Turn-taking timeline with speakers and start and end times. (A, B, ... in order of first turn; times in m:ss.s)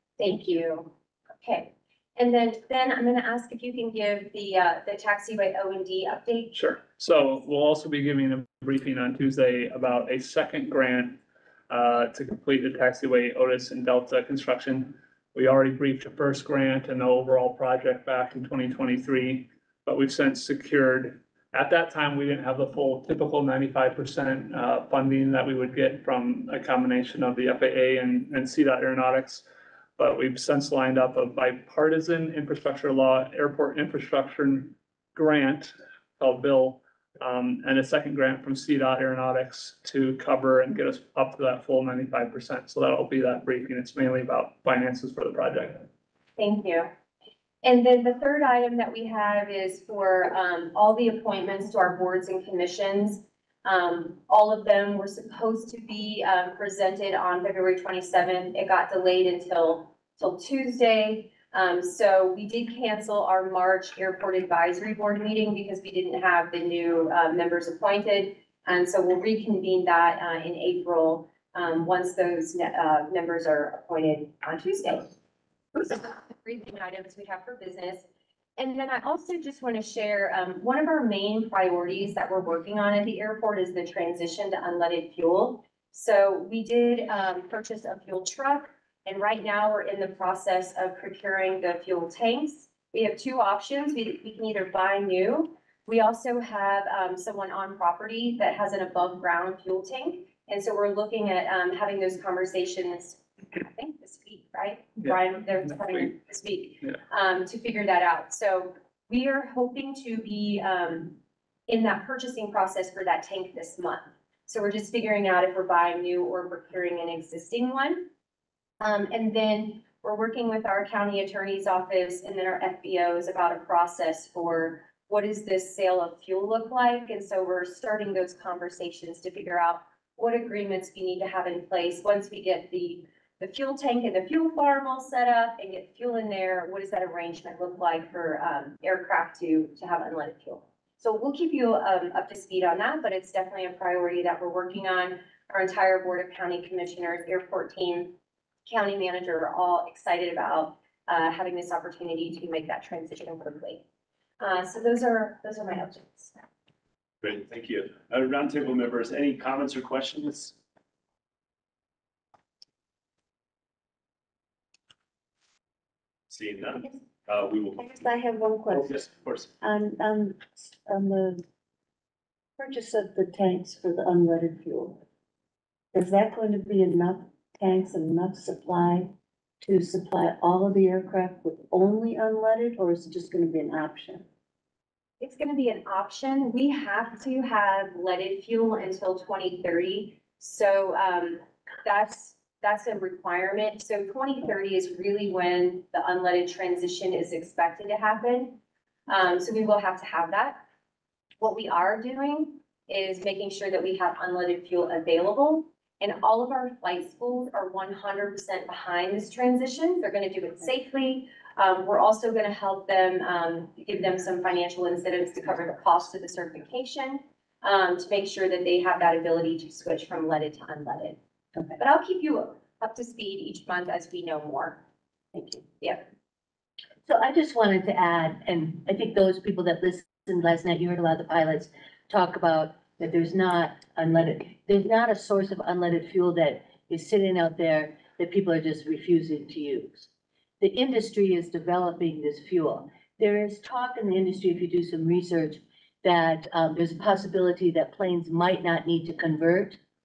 0:00.2-0:06.5 A
0:06.5-0:29.4 B
0:30.0-0:45.8 B
0:46.4-0:46.9 A
0:47.6-1:15.1 A
1:15.7-1:18.0 A
1:18.6-1:51.2 A
1:45.7-1:46.1 B
1:51.7-1:58.1 A
1:58.8-2:28.1 A
2:28.6-2:33.8 A
2:34.4-2:36.3 A
2:37.2-2:40.5 C
2:46.3-2:47.9 C
2:47.8-2:49.0 D
2:48.7-2:49.5 C
2:49.6-2:51.4 D
2:52.6-2:55.0 D
2:55.9-3:04.2 D
3:05.2-3:20.6 A
3:21.4-3:41.2 A
3:41.8-3:44.8 A
3:45.3-3:45.6 D
3:47.0-4:00.1 E
4:00.6-4:09.8 E